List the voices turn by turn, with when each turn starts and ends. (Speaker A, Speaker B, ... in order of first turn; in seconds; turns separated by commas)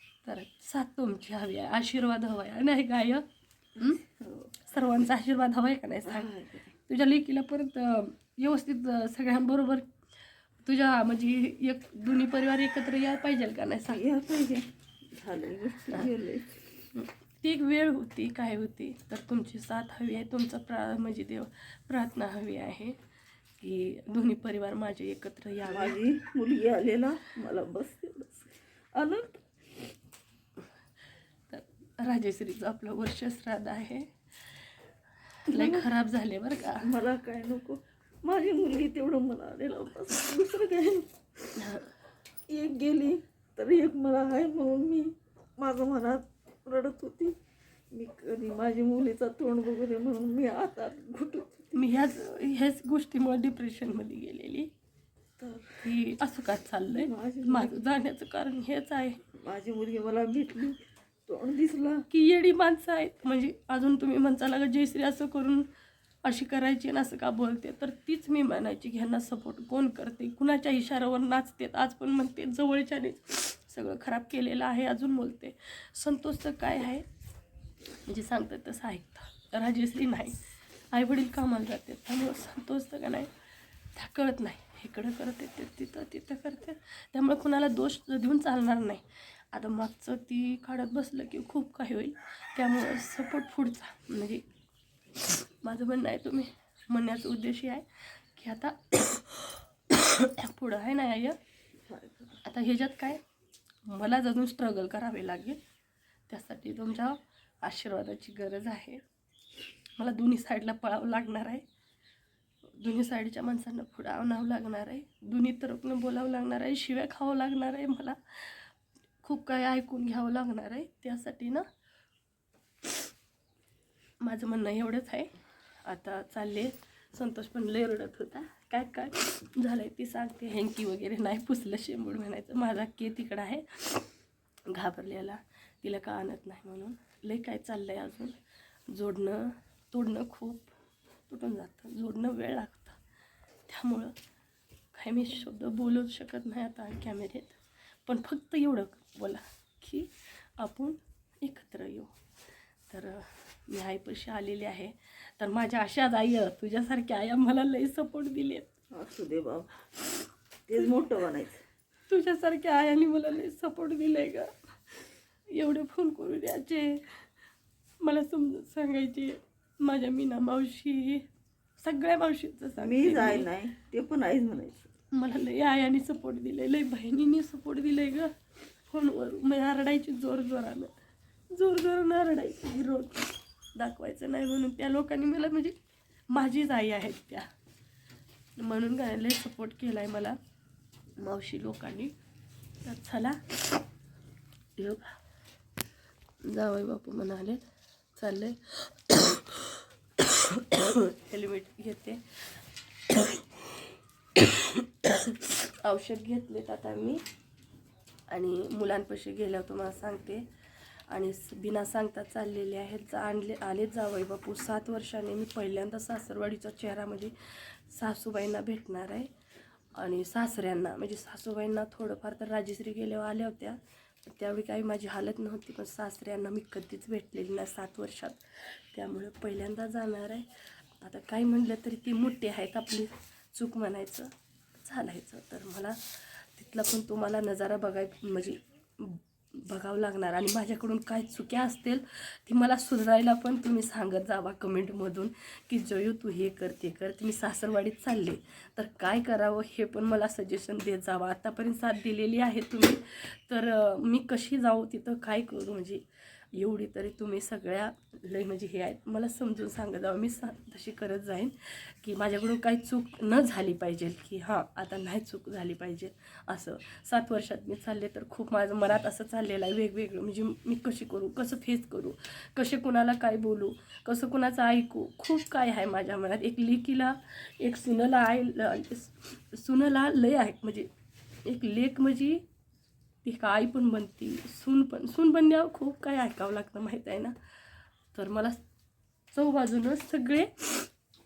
Speaker A: 0.2-3.3, Speaker B: 3.8-4.5, Speaker A: 4.7-6.3, Speaker B: 6.1-6.7, Speaker A: 6.9-9.9, Speaker A: 10.7-14.0, Speaker B: 13.9-16.6, Speaker A: 16.9-23.0, Speaker A: 23.6-26.0, Speaker B: 25.7-29.4, Speaker A: 31.5-34.1, Speaker A: 35.5-36.9, Speaker B: 35.5-35.9, Speaker B: 36.8-41.7, Speaker A: 41.6-41.9, Speaker B: 42.5-47.4, Speaker B: 47.9-51.8, Speaker A: 51.7-54.7, Speaker B: 55.4-55.9, Speaker A: 55.8-59.2, Speaker B: 56.9-57.9, Speaker B: 59.3-62.1, Speaker A: 62.1-65.7, Speaker A: 66.2-77.1, Speaker A: 78.1-83.3, Speaker A: 83.9-94.4, Speaker A: 95.2-101.4, Speaker B: 101.8-102.4, Speaker A: 102.4-103.2, Speaker A: 103.8-105.6, Speaker A: 106.3-109.0, Speaker A: 110.0-111.7, Speaker A: 112.8-118.7, Speaker A: 119.2-121.7, Speaker A: 124.2-134.1, Speaker A: 134.7-140.7, Speaker A: 141.3-143.0, Speaker A: 143.7-144.2, Speaker A: 144.9-152.1, Speaker A: 152.9-158.7, Speaker B: 158.9-159.9, Speaker B: 160.7-161.6, Speaker A: 162.1-167.2, Speaker A: 168.0-171.3, Speaker A: 171.8-173.5, Speaker B: 172.8-174.9, Speaker A: 175.1-178.3, Speaker A: 178.9-180.9, Speaker A: 181.5-185.8, Speaker A: 186.3-187.5, Speaker A: 188.6-190.4, Speaker A: 191.2-192.1, Speaker A: 192.8-193.8, Speaker A: 194.8-195.2, Speaker A: 196.4-197.6, Speaker A: 198.2-202.2, Speaker A: 203.1-203.8, Speaker A: 204.4-207.2, Speaker A: 208.3-210.4, Speaker A: 211.1-219.3, Speaker A: 219.9-234.3, Speaker A: 234.8-256.0, Speaker A: 256.5-280.9, Speaker A: 281.4-282.4, Speaker A: 283.2-287.4, Speaker A: 288.1-288.6, Speaker A: 289.3-290.9